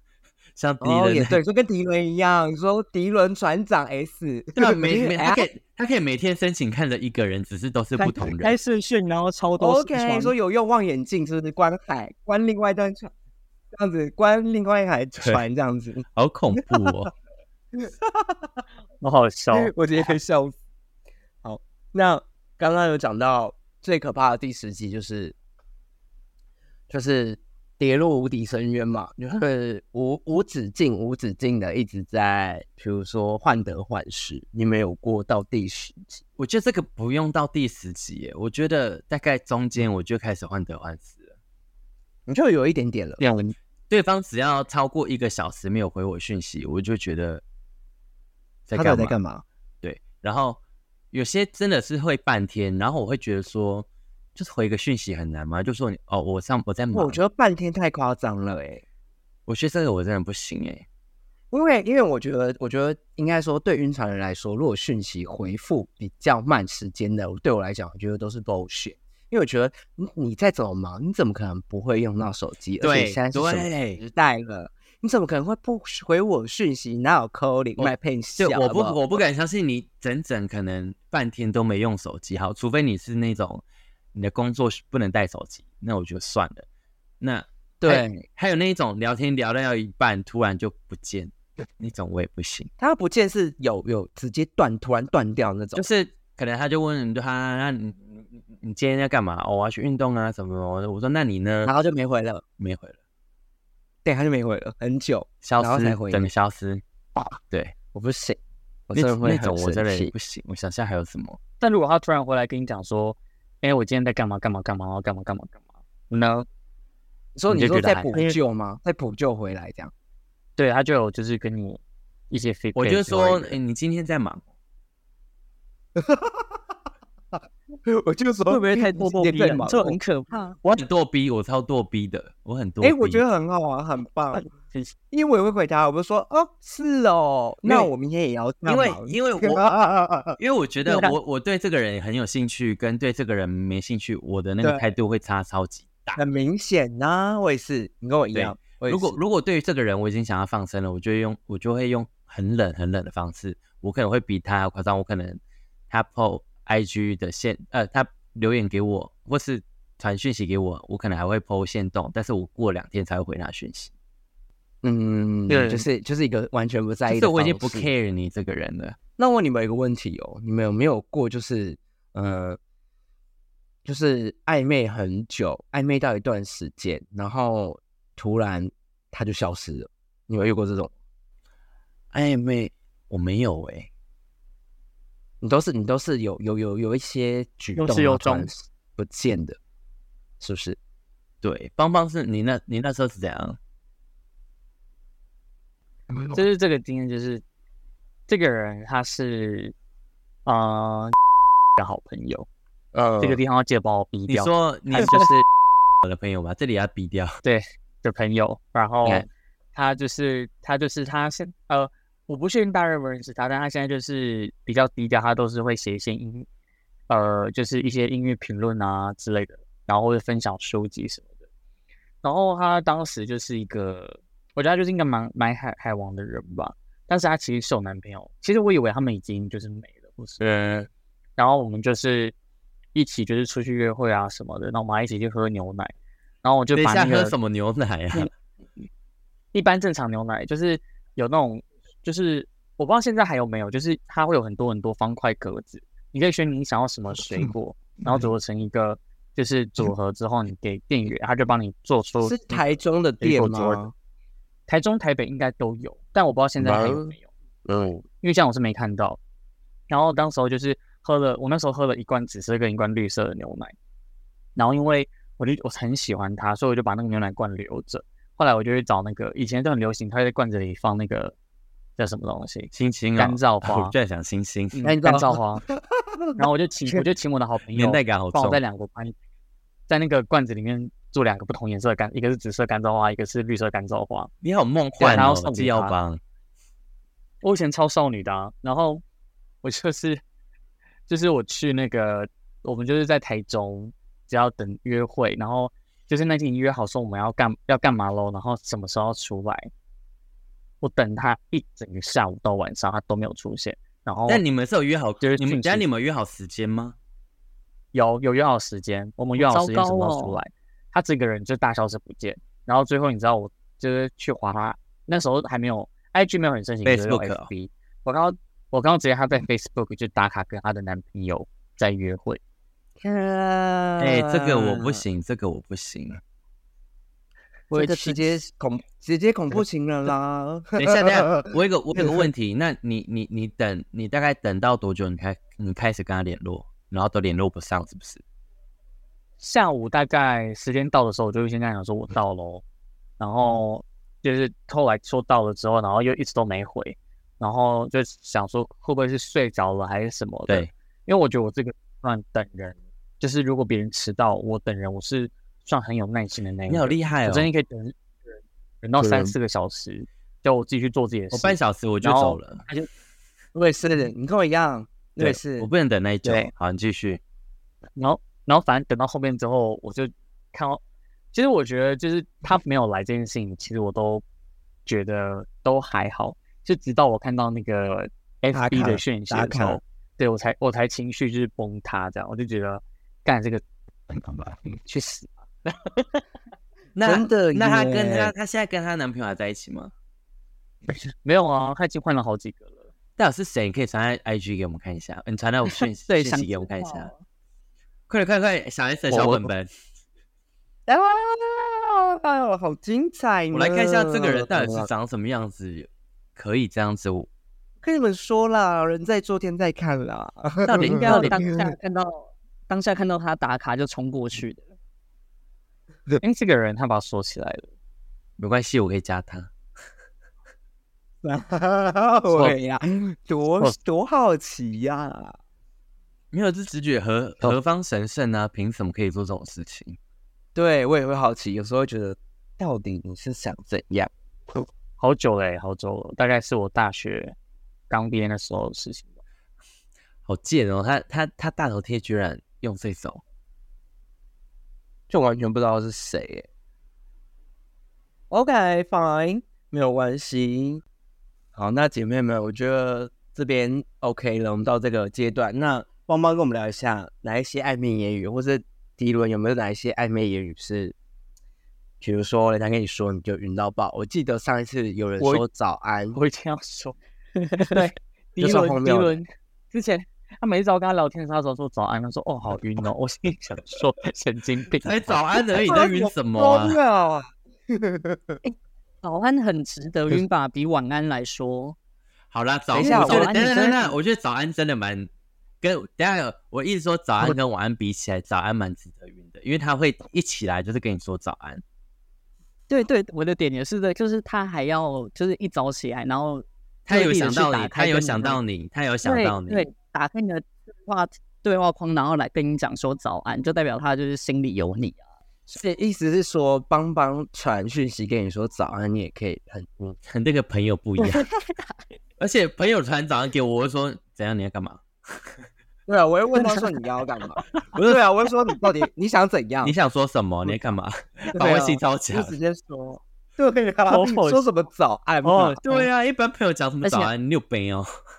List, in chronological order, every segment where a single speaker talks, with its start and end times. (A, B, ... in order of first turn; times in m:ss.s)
0:00.6-0:01.4 A
0:00.8-0:05.4 B
0:04.6-0:08.6 A
0:08.0-0:10.3 C
0:09.6-0:13.1 B
0:13.7-0:16.0 B
0:16.2-0:17.1 A
0:17.7-0:18.6 B
0:19.0-0:20.1 D
0:19.5-0:20.6 B
0:21.4-0:25.4 B
0:26.9-0:36.2 B
0:36.4-0:41.3 A
0:42.3-0:43.2 B
0:43.2-0:43.6 D
0:43.9-0:47.4 A
0:48.7-0:49.2 A
0:48.7-0:49.4 B
0:49.8-0:50.6 A
0:51.1-0:57.2 A
0:56.9-0:58.8 B
0:59.5-1:00.8 A
1:01.5-1:19.2 B
1:12.8-1:14.0 A
1:17.8-1:23.6 A
1:24.1-1:26.6 A
1:27.2-1:32.7 A
1:27.8-1:28.2 B
1:32.8-1:35.9 B
1:35.8-1:41.7 A
1:41.6-1:42.4 B
1:42.6-1:43.0 A
1:44.0-1:46.3 B
1:45.4-1:46.8 A
1:47.9-1:50.1 B
1:48.9-1:51.4 A
1:51.6-1:56.4 D
1:57.4-1:59.9 B
1:57.5-1:58.4 D
2:00.6-2:03.6 D
2:02.8-2:04.4 A
2:06.0-2:06.6 B
2:07.8-2:10.0 B
2:08.5-2:10.6 C
2:10.6-2:13.2 A
2:12.8-2:14.4 B
2:14.6-2:14.9 D
2:15.1-2:20.4 B
2:18.6-2:19.7 A
2:20.4-2:26.2 A
2:24.6-2:24.9 B
2:26.2-2:29.2 B
2:28.3-2:43.9 A
2:44.8-2:47.9 B
2:45.5-2:45.8 D
2:47.1-2:49.0 A
2:49.2-2:52.6 B
2:53.8-3:00.9 B
3:02.1-3:03.9 A
3:05.4-3:09.6 B
3:07.8-3:08.5 D
3:10.4-3:10.8 B
3:11.4-3:13.6 A
3:16.1-3:16.4 B
3:16.3-3:17.4 D
3:18.3-3:19.7 D
3:20.4-3:21.1 D
3:21.8-3:22.5 D
3:22.9-3:23.4 B
3:23.2-3:25.4 D
3:24.3-3:25.4 A
3:26.0-3:27.4 A
3:27.4-3:36.5 D
3:37.1-3:41.3 D
3:42.2-3:50.4 D
3:50.4-3:50.9 A
3:51.4-3:52.3 D
3:52.9-3:57.4 D
3:56.8-3:58.3 A
3:59.5-4:12.7 D
4:12.2-4:13.9 B
4:13.2-4:13.8 D
4:14.7-4:17.3 D
4:16.6-4:17.2 B
4:17.6-4:18.0 B
4:18.2-4:19.2 D
4:19.9-4:23.8 D
4:24.5-4:31.4 D
4:32.0-4:33.9 D
4:32.7-4:34.8 A
4:34.8-4:35.6 D
4:34.8-4:35.4 B
4:36.0-4:37.0 B
4:36.4-4:39.2 D
4:37.7-4:38.6 A
4:39.9-4:44.3 D
4:44.4-4:46.2 A
4:45.0-4:45.9 D
4:47.4-4:49.0 D
4:49.6-4:50.2 D
4:51.1-4:59.7 D
5:00.8-5:04.4 D
5:04.3-5:07.0 A
5:05.2-5:05.8 D
5:07.9-5:22.4 D
5:09.4-5:10.4 C
5:16.8-5:17.5 A
5:23.0-5:25.0 B
5:24.0-5:26.2 A
5:27.7-5:32.3 B
5:27.7-5:28.4 C
5:30.8-5:38.2 A
5:39.4-5:42.6 D
5:43.2-5:57.9 D
5:56.7-5:57.5 A
5:58.8-6:02.9 D
5:59.0-5:59.3 B
6:01.3-6:02.6 A
6:03.5-6:05.7 B
6:05.2-6:07.2 A
6:06.2-6:06.5 D
6:08.0-6:10.8 D
6:11.3-6:14.2 D
6:14.8-6:23.6 D
6:18.5-6:19.8 B
6:24.2-6:25.3 B
6:27.0-6:29.9 A
6:27.0-6:28.3 B
6:31.2-6:32.8 D
6:33.2-6:37.1 A
6:36.1-6:37.2 C
6:38.1-6:39.7 A
6:39.1-6:39.5 D
6:40.9-6:44.9 B
6:43.5-6:47.3 A
6:47.8-6:51.8 B
6:50.6-6:51.5 A
6:50.8-6:54.7 C
6:56.2-6:57.7 D
6:58.4-6:59.5 A
7:01.2-7:05.4 B
7:06.3-7:10.0 A
7:10.5-7:14.1 B
7:15.0-7:17.4 D
7:17.9-7:19.1 D
7:20.2-7:23.2 A
7:25.1-7:26.5 B
7:28.3-7:30.8 B
7:31.5-7:40.9 B
7:42.0-7:46.2 B
7:46.1-7:47.0 D
7:47.4-7:47.8 C
7:47.6-7:55.4 D
7:48.4-7:49.2 B
7:54.8-7:56.8 A
7:55.6-7:58.4 B
7:59.0-8:01.8 C
8:02.3-8:05.1 A
8:02.7-8:03.4 B
8:02.8-8:04.0 C
8:05.6-8:11.6 A
8:12.7-8:18.4 C
8:16.8-8:19.7 A
8:19.0-8:25.0 C
8:25.5-8:30.0 B
8:30.1-8:31.3 A
8:32.2-8:35.4 A
8:35.9-8:39.7 B
8:37.8-8:38.0 A
8:39.6-8:42.3 A
8:41.3-8:45.6 B
8:43.9-8:44.4 D
8:45.2-8:45.9 D
8:45.6-8:47.9 A
8:46.8-8:47.1 C